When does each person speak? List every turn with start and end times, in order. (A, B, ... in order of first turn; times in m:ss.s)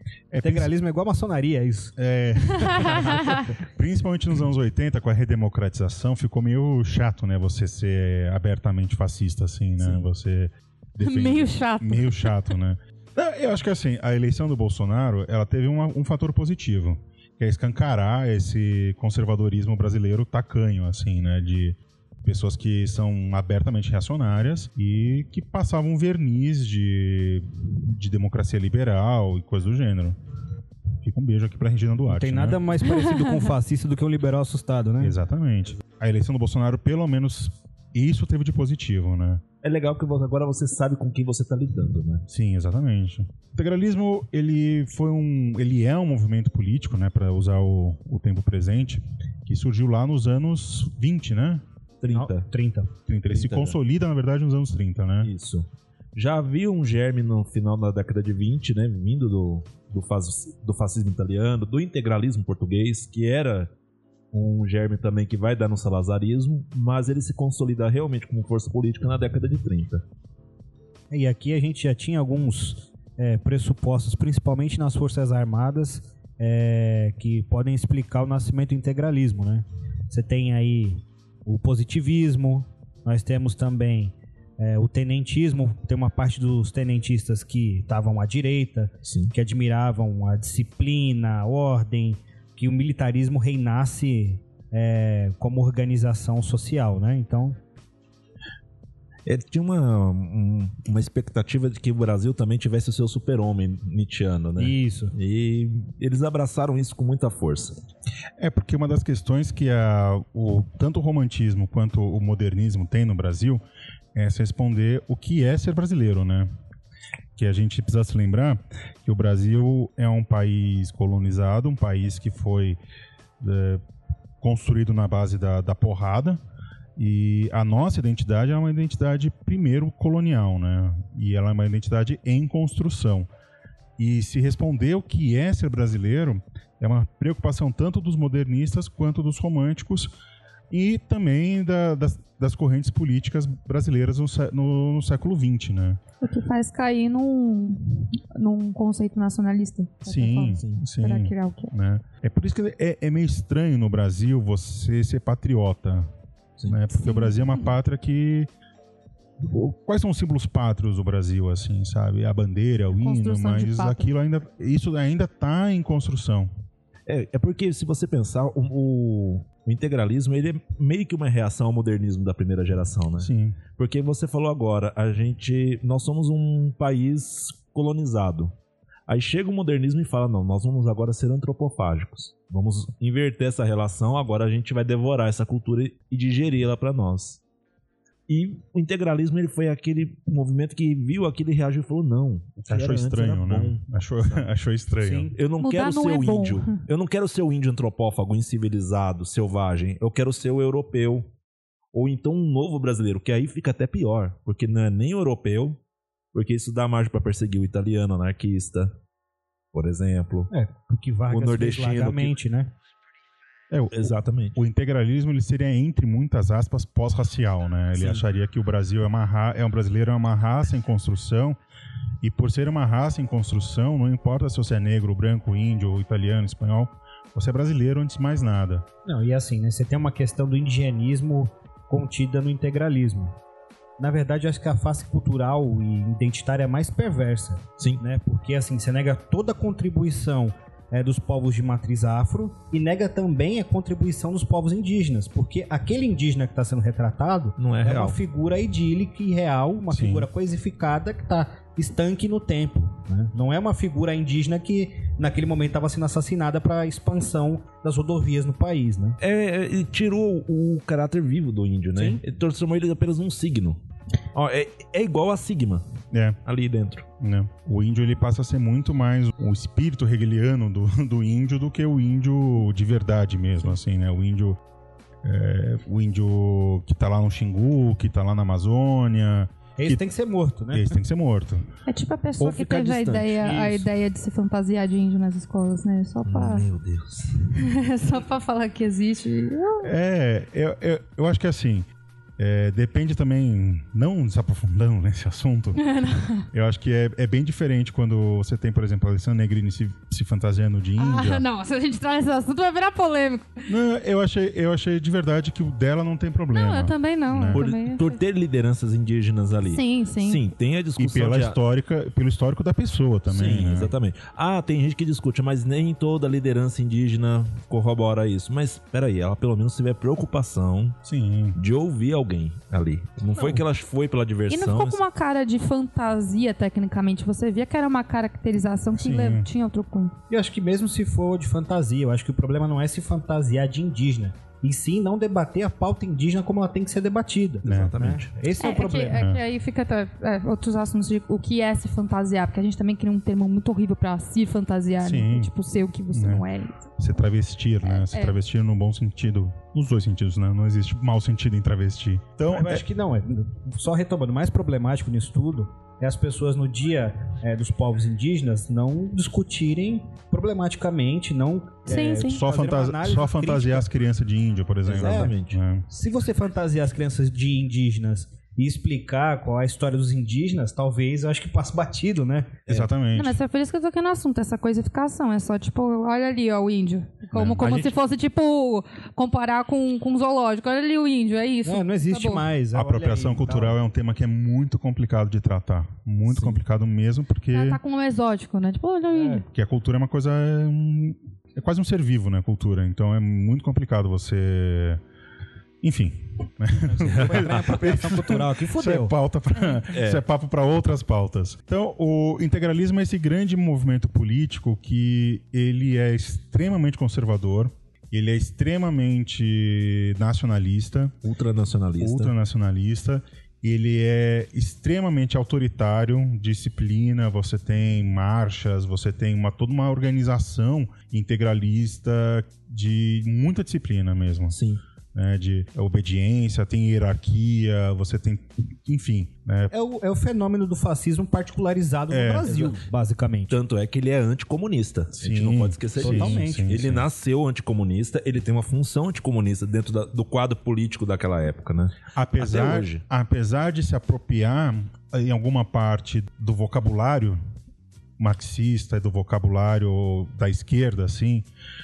0:00.3-0:00.7 A
0:00.4-0:01.9 B
0:02.0-0:30.2 A
0:02.8-0:03.6 B
0:03.1-0:03.4 C
0:11.0-0:12.5 C
0:31.0-0:32.6 A
0:32.1-0:35.2 B
0:32.9-0:33.3 C
0:35.0-0:39.4 A
0:39.6-0:42.2 D
0:42.3-0:51.6 A
0:52.0-0:52.5 D
0:52.1-0:52.9 B
0:53.1-0:55.3 A
0:53.3-0:53.8 D
0:55.2-1:03.7 D
1:04.3-1:10.0 D
1:11.1-1:37.6 B
1:29.0-1:29.3 D
1:39.2-1:47.8 D
1:44.6-1:45.1 B
1:48.4-1:53.6 A
1:54.1-1:56.5 A
1:57.4-2:02.8 A
2:03.4-2:03.8 A
2:04.4-2:06.4 A
2:07.0-2:13.3 A
2:14.0-2:20.1 A
2:20.7-2:26.0 A
2:26.2-2:31.7 C
2:30.0-2:36.1 A
2:36.6-2:38.5 A
2:37.0-2:37.4 C
2:39.4-2:46.5 A
2:43.0-2:44.1 C
2:47.1-2:58.5 D
2:53.2-2:53.6 A
2:59.1-3:07.4 D
3:08.3-3:14.4 D
3:12.6-3:15.3 A
3:15.0-3:15.4 B
3:15.3-3:21.3 D
3:15.6-3:16.8 C
3:21.9-3:25.8 D
3:26.3-3:29.0 D
3:29.7-3:30.5 D
3:30.5-3:32.7 B
3:31.3-3:32.3 D
3:33.7-3:41.6 A
3:33.9-3:34.6 D
3:42.2-3:48.8 A
3:49.0-3:53.4 B
3:54.0-4:19.2 B
4:07.6-4:08.2 D
4:09.9-4:10.3 A
4:19.2-4:23.8 D
4:21.9-4:22.2 B
4:24.3-4:25.8 D
4:26.1-4:26.4 A
4:26.4-4:27.1 D
4:27.2-4:34.6 A
4:35.2-4:40.0 A
4:39.8-4:41.0 B
4:40.7-4:41.7 A
4:41.9-4:46.6 C
4:42.4-4:43.9 D
4:46.2-4:47.6 D
4:47.6-4:49.9 C
4:49.8-4:51.8 A
4:52.4-4:55.8 A
4:55.8-4:56.4 C
4:56.5-5:01.4 A
5:01.0-5:03.6 C
5:03.7-5:07.6 A
5:06.5-5:08.2 C
5:07.5-5:11.6 D
5:09.7-5:10.4 C
5:11.0-5:13.9 A
5:13.3-5:21.0 D
5:21.0-5:21.6 A
5:21.6-5:25.0 D
5:24.5-5:30.2 C
5:28.9-5:29.5 A
5:30.3-5:39.2 B
5:37.6-5:38.3 D
5:37.6-5:38.0 A
5:38.6-5:46.8 C
5:39.1-5:39.4 A
5:45.0-5:45.5 A
5:46.1-5:46.4 A
5:47.0-5:52.8 A
5:47.8-5:48.3 C
5:52.4-6:03.9 B
6:01.9-6:02.4 C
6:02.2-6:05.8 A
6:04.8-6:05.6 D
6:04.9-6:05.3 B
6:05.9-6:12.7 B
6:12.7-6:13.4 A
6:13.1-6:22.5 C
6:17.3-6:17.8 A
6:17.6-6:17.9 B
6:21.6-6:23.8 B
6:22.7-6:27.8 A
6:26.3-6:26.6 B
6:27.5-6:29.4 C
6:29.1-6:29.4 B
6:29.4-6:35.0 A
6:35.8-6:51.2 A
6:36.8-6:39.1 B
6:37.1-6:37.6 D
6:39.6-6:39.8 C
6:39.9-6:40.2 D
6:51.2-6:52.3 D
6:52.0-7:04.6 A
7:04.5-7:04.8 D
7:05.1-7:09.7 A
7:09.7-7:13.6 B
7:12.1-7:12.5 A
7:12.5-7:12.8 D
7:13.5-7:23.0 D
7:15.2-7:17.0 A
7:16.0-7:16.7 B
7:22.1-7:27.4 A
7:28.2-7:31.4 A